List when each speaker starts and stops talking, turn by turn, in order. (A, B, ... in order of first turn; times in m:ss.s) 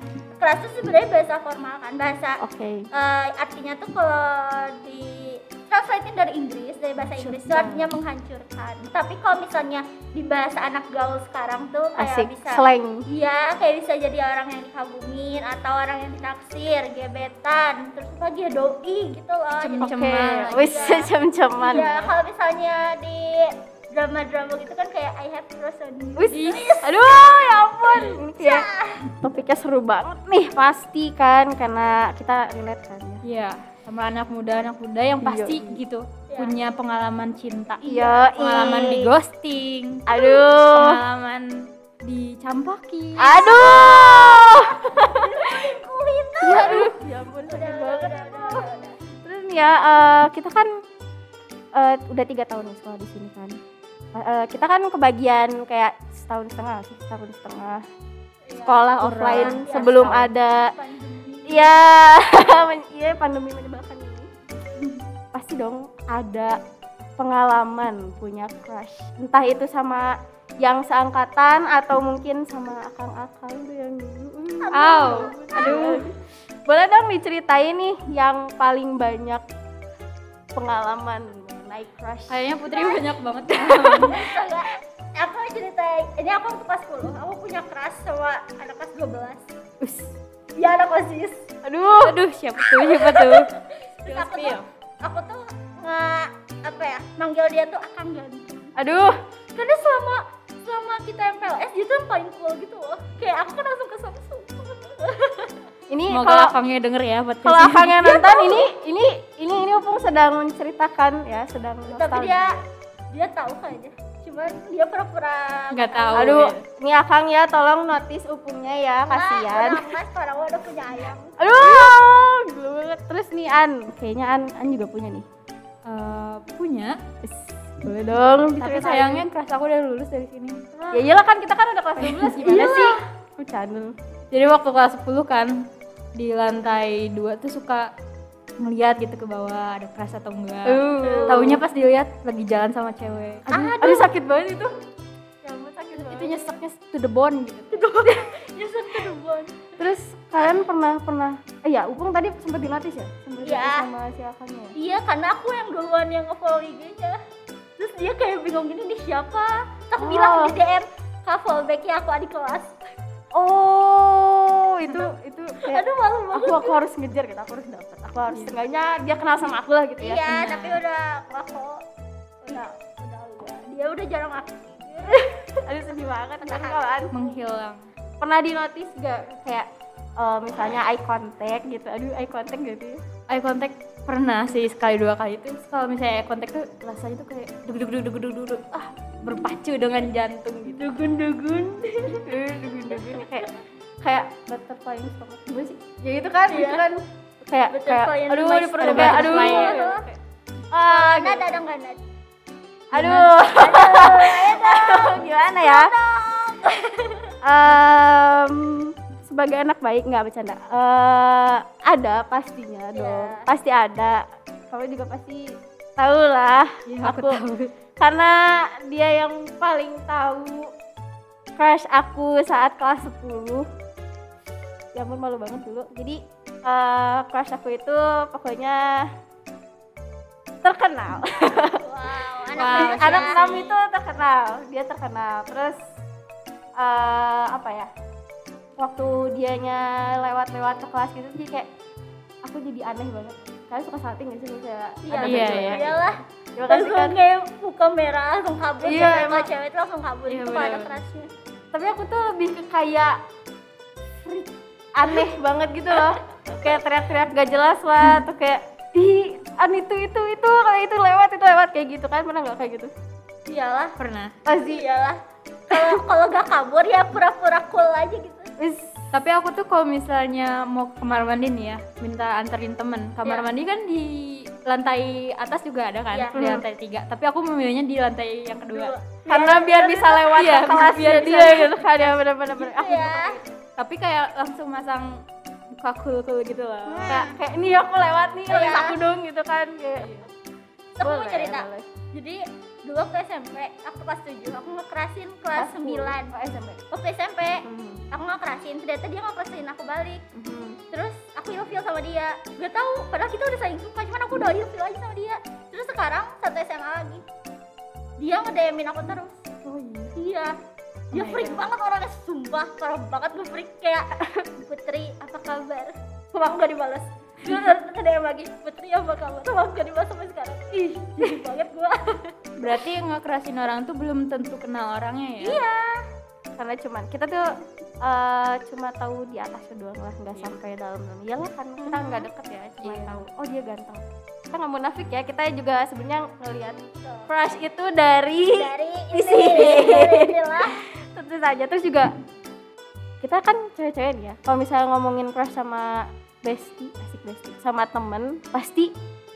0:00.4-0:02.4 A
0:02.4-0:02.9 B
0:02.9-0:20.0 A
0:07.2-0:07.9 B
0:12.0-0:13.0 B
0:19.6-0:21.0 C
0:19.8-0:22.1 B
0:20.5-0:29.1 A
0:26.2-0:33.2 B
0:26.3-0:26.6 C
0:33.2-0:43.9 C
0:35.2-0:35.8 B
0:36.3-0:36.5 A
0:37.8-0:39.1 B
0:40.1-0:41.0 B
0:43.2-0:45.6 B
0:43.5-0:47.0 A
0:46.4-0:48.7 B
0:47.5-0:49.0 A
0:49.2-0:50.8 B
0:51.7-0:53.6 B
0:54.1-0:57.8 B
0:58.5-1:01.7 A
0:58.6-1:00.7 B
0:59.0-1:00.3 C
1:01.5-1:04.3 B
1:05.3-1:06.6 B
1:07.2-1:19.4 B
1:14.6-1:16.0 A
1:14.7-1:16.1 C
1:20.5-1:22.5 B
1:22.3-1:24.2 C
1:22.7-1:23.2 A
1:23.7-1:24.2 B
1:24.0-1:29.5 A
1:30.6-1:31.5 A
1:31.6-1:32.2 B
1:31.9-1:33.5 C
1:32.8-1:33.4 B
1:33.1-1:38.7 A
1:34.0-1:34.6 C
1:38.8-1:39.2 B
1:39.6-1:45.6 A
1:45.9-1:46.6 B
1:46.1-1:48.1 C
1:47.4-1:52.6 B
1:48.0-1:48.7 A
1:51.9-1:52.6 A
1:53.1-1:56.4 A
1:55.7-1:56.6 C
1:56.1-1:59.8 B
1:59.1-2:01.9 A
2:01.4-2:05.3 B
2:05.9-2:07.0 C
2:07.2-2:09.3 B
2:08.6-2:10.6 C
2:10.7-2:11.1 A
2:10.9-2:13.9 B
2:12.0-2:12.4 C
2:12.4-2:13.0 A
2:14.3-2:17.9 C
2:18.6-2:23.5 C
2:20.6-2:21.6 B
2:21.0-2:21.6 A
2:23.5-2:24.7 B
2:23.5-2:24.1 A
2:25.4-2:26.5 B
2:26.0-2:27.8 C
2:27.7-2:29.8 A
2:29.8-2:34.7 B
2:33.4-2:33.9 A
2:34.8-2:37.2 A
2:37.8-2:42.8 A
2:40.0-2:40.6 B
2:43.3-2:50.4 B
2:45.6-2:46.8 A
2:50.0-2:51.8 A
2:50.3-2:50.8 C
2:52.4-2:55.6 A
2:55.1-2:57.1 B
2:56.4-2:57.1 A
2:57.1-2:57.8 C
2:58.2-3:03.0 B
3:03.3-3:11.0 C
3:10.8-3:12.3 A
3:12.2-3:13.5 B
3:14.0-3:20.0 B
3:16.5-3:16.9 A
3:17.7-3:20.1 A
3:18.8-3:20.0 C
3:20.7-3:21.6 B
3:20.8-3:22.0 A
3:22.9-3:25.9 B
3:22.9-3:23.4 C
3:23.4-3:27.3 A
3:27.4-3:37.4 B
3:32.9-3:33.5 A
3:36.9-3:37.7 C
3:38.0-3:40.7 B
3:41.6-3:43.7 B
3:44.9-3:49.1 B
3:50.6-3:51.8 B
3:51.6-3:53.4 A
3:52.4-3:55.8 B
3:52.6-3:53.8 C
3:56.8-3:57.9 B
3:58.8-4:01.7 B
4:02.4-4:06.0 B
4:05.0-4:11.3 A
4:05.2-4:05.9 C
4:06.6-4:07.2 B
4:08.8-4:09.5 B
4:10.3-4:11.0 C
4:11.7-4:13.2 B
4:14.2-4:22.9 B
4:23.5-4:24.0 A
4:24.0-4:24.4 C
4:24.4-4:24.8 B
4:24.6-4:28.5 A
4:25.7-4:26.0 B
4:28.6-4:29.0 B
4:29.1-4:38.9 C
4:36.1-4:36.4 A
4:36.4-4:36.6 B
4:38.7-4:40.5 A
4:39.3-4:43.4 B
4:40.3-4:42.0 C
4:42.6-4:43.4 A
4:43.8-4:45.2 C
4:45.8-4:47.2 C
4:46.9-4:47.4 A
4:47.0-4:50.1 B
4:48.5-4:49.0 A
4:50.0-4:50.3 C
4:51.0-4:56.3 A
4:51.0-4:51.9 B
4:55.6-4:56.8 B
4:56.9-5:00.2 A
4:57.6-4:58.0 B
5:00.3-5:00.8 B
5:00.9-5:07.2 A
5:08.2-5:09.4 A
5:09.6-5:10.2 C
5:10.2-5:10.6 A
5:11.1-5:11.7 C
5:11.1-5:22.4 A
5:14.2-5:14.5 B
5:22.6-5:25.6 C
5:25.4-5:26.1 A
5:26.6-5:27.5 B
5:28.0-5:42.1 B
5:31.8-5:32.3 A
5:32.8-5:33.2 C
5:37.0-5:37.3 A
5:38.5-5:40.8 A
5:43.2-5:48.9 B